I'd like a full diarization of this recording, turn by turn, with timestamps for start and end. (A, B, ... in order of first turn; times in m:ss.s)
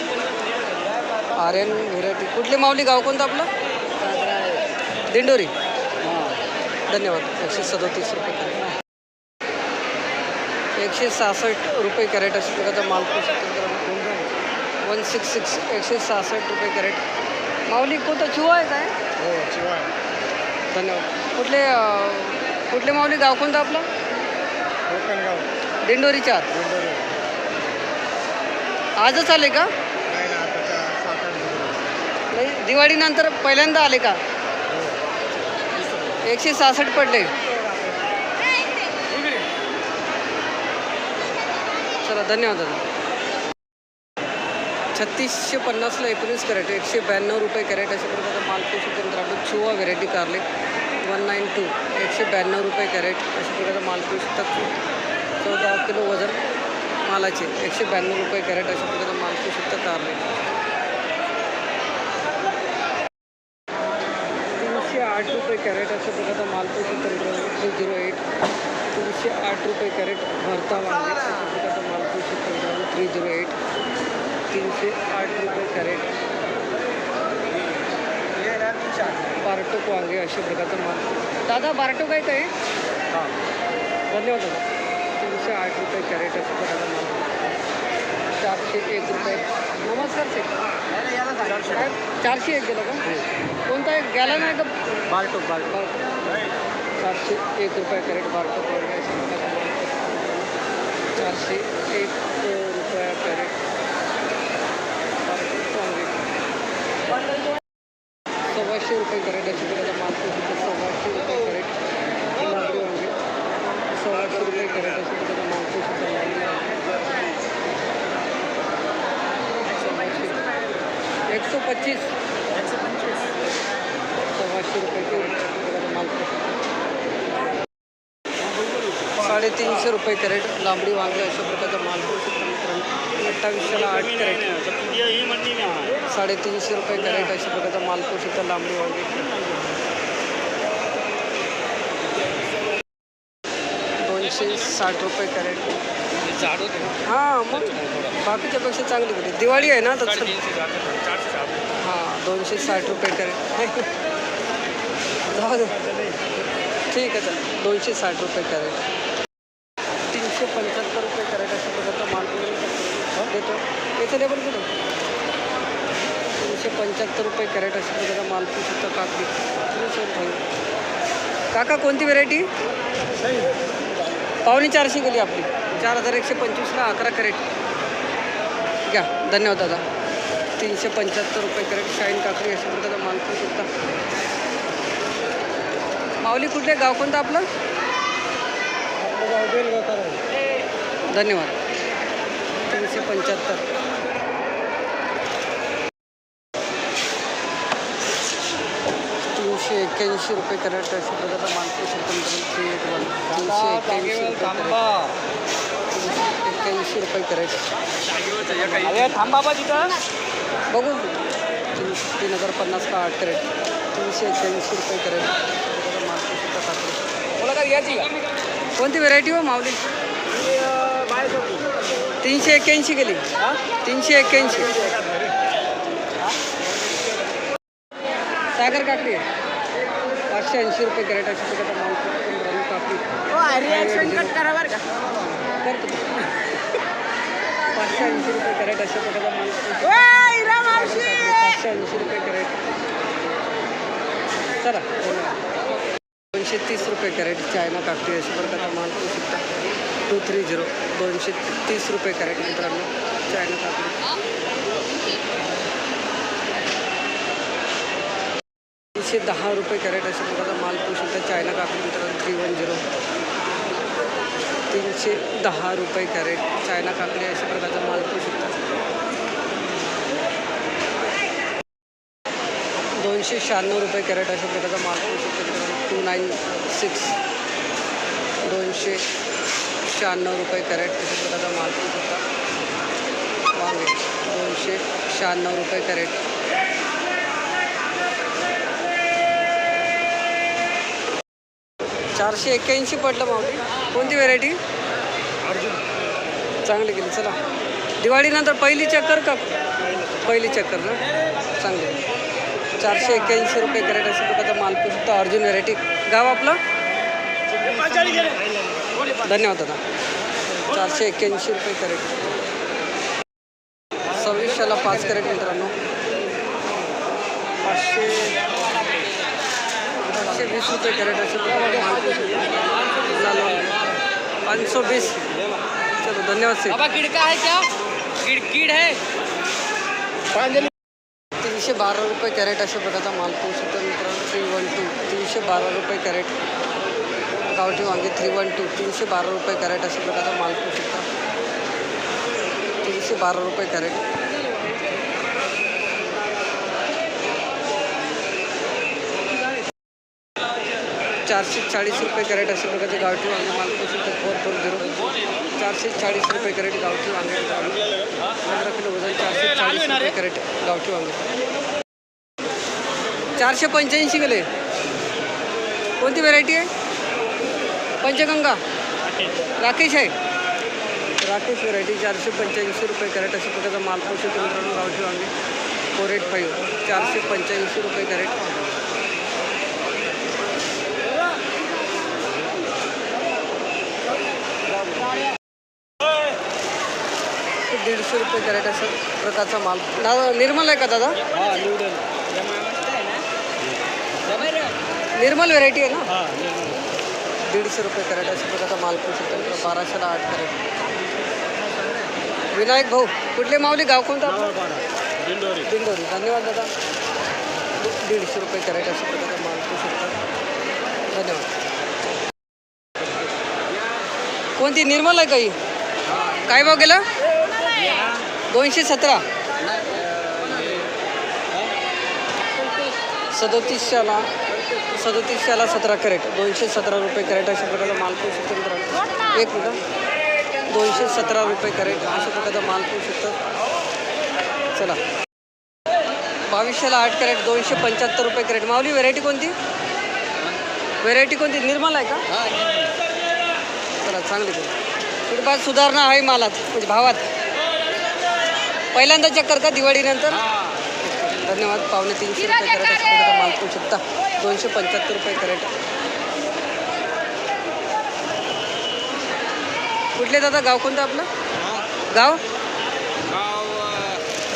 0:01.3-0:03.5 A
0:04.1-0:04.6 B
0:05.1-0:05.5 A
0:06.9-0:08.7 A
0:10.8-0:14.2 A
0:14.8-0:17.0 A
0:17.7-0:19.0 A
0:19.2-0:19.9 B
0:20.7-0:23.9 A
0:24.9-0:25.5 B
0:25.8-0:26.5 A
0:26.6-0:27.1 B
0:29.0-0:29.7 A
0:30.1-0:31.9 B
0:32.3-0:34.2 A
0:36.2-0:37.4 A
0:42.0-0:42.8 A
0:44.9-0:50.4 A
0:51.0-0:54.8 A
0:55.4-0:56.4 A
0:57.0-1:00.2 A
1:04.5-1:08.2 A
1:08.9-1:13.6 A
1:14.5-1:16.1 A
1:19.4-1:22.5 A
1:24.1-1:27.3 A
1:28.4-1:30.5 A
1:31.2-1:31.7 B
1:31.6-1:34.8 A
1:35.5-1:36.4 A
1:37.0-1:40.5 A
1:41.2-1:43.6 A
1:45.3-1:46.2 A
1:48.5-1:51.8 A
1:52.4-1:53.2 A
1:53.9-1:56.8 A
1:59.7-2:00.5 A
2:01.3-2:02.1 A
2:04.3-2:06.6 A
2:09.2-2:14.7 A
2:14.6-2:15.9 B
2:16.0-2:19.3 A
2:24.0-2:25.8 A
2:26.3-2:26.9 B
2:27.0-2:30.4 A
2:30.4-2:31.6 B
2:31.7-2:33.9 A
2:35.3-2:36.1 A
2:36.9-2:38.8 A
2:40.1-2:44.7 A
2:46.4-2:50.4 A
2:51.5-2:52.5 A
2:54.4-2:57.4 A
2:58.8-2:59.8 A
3:00.6-3:03.7 A
3:06.2-3:07.5 A
3:09.0-3:10.2 B
3:11.1-3:11.6 A
3:12.6-3:13.7 A
3:19.3-3:24.9 A
3:25.9-3:27.7 A
3:28.4-3:30.0 B
3:30.7-3:31.2 A
3:31.7-3:37.1 A
3:37.4-3:38.1 B
3:38.8-3:39.8 A
3:40.9-3:41.4 B
3:42.2-3:45.0 A
3:48.6-3:49.2 A
3:50.3-3:54.6 A
3:55.6-3:56.3 A
3:57.7-4:02.6 A
4:04.6-4:05.4 A
4:06.3-4:09.4 A
4:10.1-4:14.1 A
4:19.0-4:22.9 A
4:24.7-4:28.6 A
4:32.9-4:37.2 A
4:38.4-4:39.1 A
4:39.8-4:42.2 A
4:43.6-4:46.2 A
4:52.1-4:54.6 A
4:56.6-4:57.4 A
4:58.0-5:01.0 A
5:01.6-5:02.0 A
5:02.8-5:06.6 A
5:07.7-5:08.4 B
5:09.2-5:09.8 A
5:10.6-5:12.2 A
5:14.1-5:15.8 A
5:17.6-5:18.6 A
5:20.1-5:22.5 A
5:23.0-5:23.8 A
5:24.4-5:25.3 A
5:26.0-5:27.0 A
5:27.1-5:27.6 B
5:28.3-5:29.0 B
5:31.4-5:36.3 A
5:37.5-5:41.1 A
5:42.8-5:44.1 A
5:51.2-6:01.2 A
6:03.3-6:04.5 A
6:06.0-6:06.7 A
6:08.0-6:08.6 A
6:09.6-6:10.2 A
6:11.2-6:15.3 A
6:15.9-6:18.6 A
6:27.7-6:31.3 A
6:31.3-6:33.2 B
6:34.3-6:34.7 B
6:35.1-6:36.2 A
6:36.2-6:36.8 B
6:37.4-6:40.6 A
6:42.5-6:44.7 A
6:45.5-6:46.7 A
6:47.8-6:50.2 A
6:51.1-6:51.5 A
6:54.6-6:55.6 A
6:56.1-6:57.1 A
6:57.8-6:58.2 B
6:58.5-6:59.3 A
6:59.7-7:00.9 B
7:03.3-7:04.3 A
7:04.9-7:09.8 A
7:10.7-7:13.4 A
7:16.5-7:19.6 A
7:21.0-7:22.3 A
7:24.0-7:24.7 A
7:25.3-7:27.3 A
7:28.9-7:35.8 A
7:40.2-7:41.3 A
7:42.1-7:42.4 A
7:43.3-7:44.2 B